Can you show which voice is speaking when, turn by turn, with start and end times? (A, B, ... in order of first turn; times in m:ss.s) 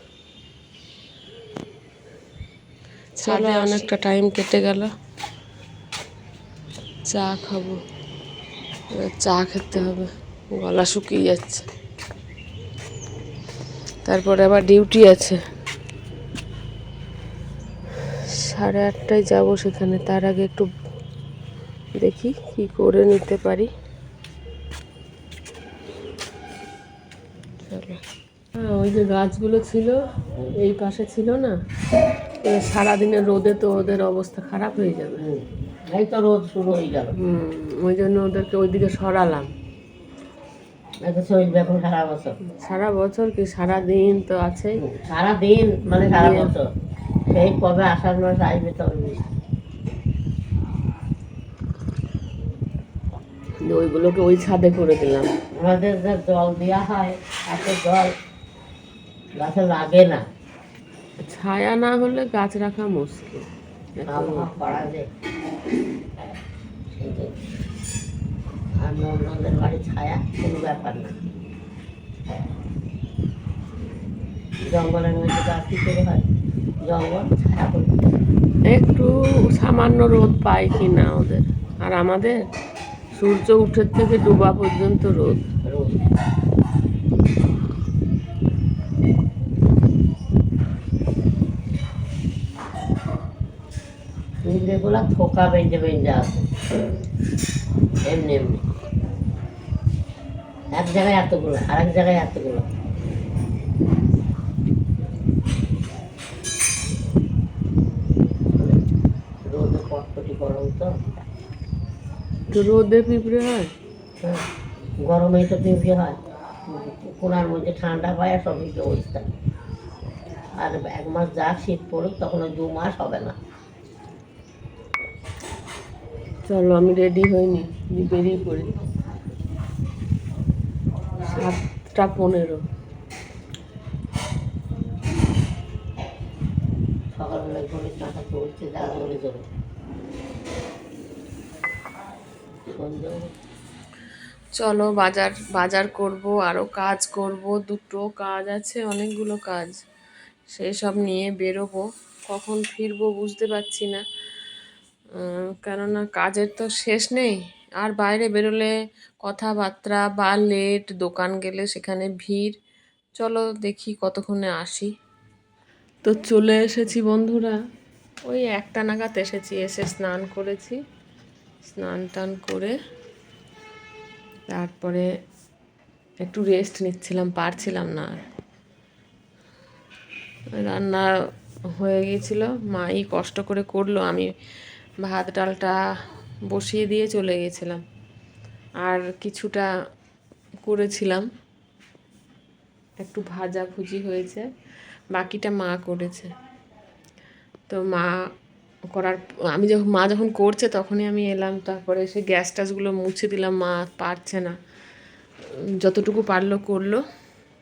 0:03.2-0:04.9 A
0:07.1-0:07.8 A
0:08.9-0:11.7 A
0:14.0-0:15.4 A
0:18.0-0:20.7 A
0:22.0-0:23.7 A
0:27.6-0:28.0 A
0:28.6-0:30.0 A
0:30.5-0:31.6 A
0:32.4-0:35.2 A
0:35.2-0:37.1 B
0:37.2-0:39.5 A
0:41.0-0:42.4 B
0:42.4-0:44.8 A
0:44.8-0:46.7 B
0:46.1-0:46.5 A
0:47.3-0:49.2 B
0:53.6-0:55.3 A
0:55.6-0:58.1 B
0:59.4-1:00.2 B
1:01.2-1:03.5 A
1:04.0-1:04.6 A
1:04.1-1:05.0 B
1:06.9-1:07.3 B
1:08.8-1:11.1 B
1:14.6-1:16.2 B
1:16.8-1:17.9 B
1:18.7-1:22.4 A
1:23.1-1:25.5 A
1:25.6-1:26.0 B
1:34.4-1:36.5 B
1:38.0-1:38.6 B
1:40.7-1:42.7 B
1:49.4-1:51.2 B
1:52.5-1:53.7 A
1:55.0-1:59.3 B
2:00.6-2:03.4 B
2:06.5-2:08.7 A
2:11.2-2:12.6 A
2:17.1-2:19.4 B
2:22.7-2:23.3 B
2:24.5-2:29.8 A
2:30.5-2:34.0 A
2:35.1-2:38.7 A
2:39.2-2:42.6 A
2:43.2-2:44.9 A
2:46.0-2:47.6 A
2:48.2-2:50.8 A
2:51.6-2:52.7 A
2:54.5-2:55.0 A
2:56.2-2:58.2 A
3:00.5-3:01.1 A
3:01.8-3:04.3 A
3:05.0-3:05.8 A
3:06.5-3:07.8 A
3:08.8-3:09.7 A
3:10.6-3:11.3 A
3:13.0-3:14.5 A
3:15.1-3:16.3 A
3:17.7-3:18.1 A
3:18.9-3:24.5 A
3:25.8-3:27.0 A